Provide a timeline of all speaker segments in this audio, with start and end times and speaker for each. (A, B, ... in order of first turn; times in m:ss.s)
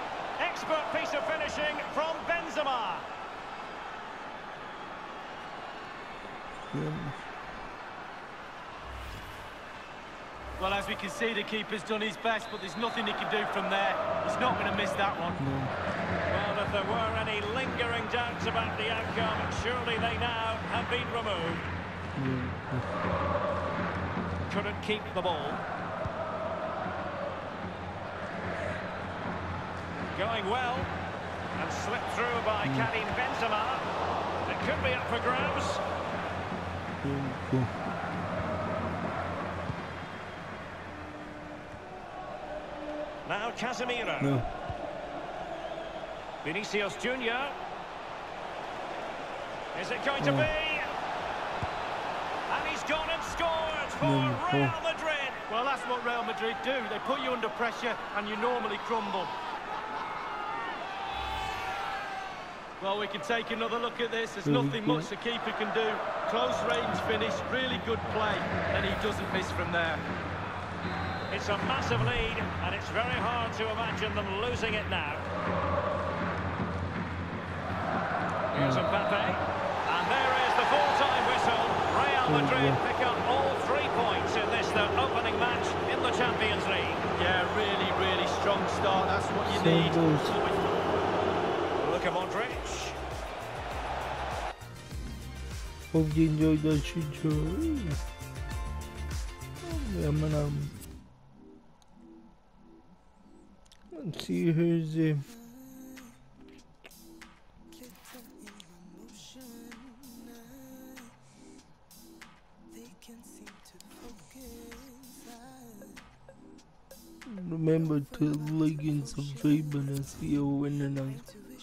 0:00.4-0:03.0 A
0:06.7-0:07.2 B
0:10.6-0:15.4 C
0:15.4-0:15.7 B
0:16.3-0:21.7 A
0:22.1-0:22.9 B
0:24.5-0:25.6 A
0:30.1-0:30.9 A
0:31.6-0:33.8 A
0:32.6-0:32.9 B
0:34.4-0:35.8 A
0:37.0-0:37.8 B
0:43.2-0:44.3 A
0:44.2-0:44.5 B
0:46.4-0:47.6 A
0:49.7-0:50.9 A
0:50.2-0:50.5 B
0:52.5-0:55.4 A
0:54.0-0:54.8 B
0:55.5-0:59.3 C
1:02.8-1:10.0 C
1:04.4-1:05.1 B
1:11.3-1:15.2 A
1:18.5-1:27.0 A
1:18.5-1:18.8 B
1:22.2-1:22.8 B
1:27.2-1:30.6 C
1:29.5-1:30.4 B
1:31.8-1:33.0 A
1:35.9-1:38.0 B
1:39.6-1:40.7 B
1:43.9-1:45.3 B
1:57.2-2:01.4 B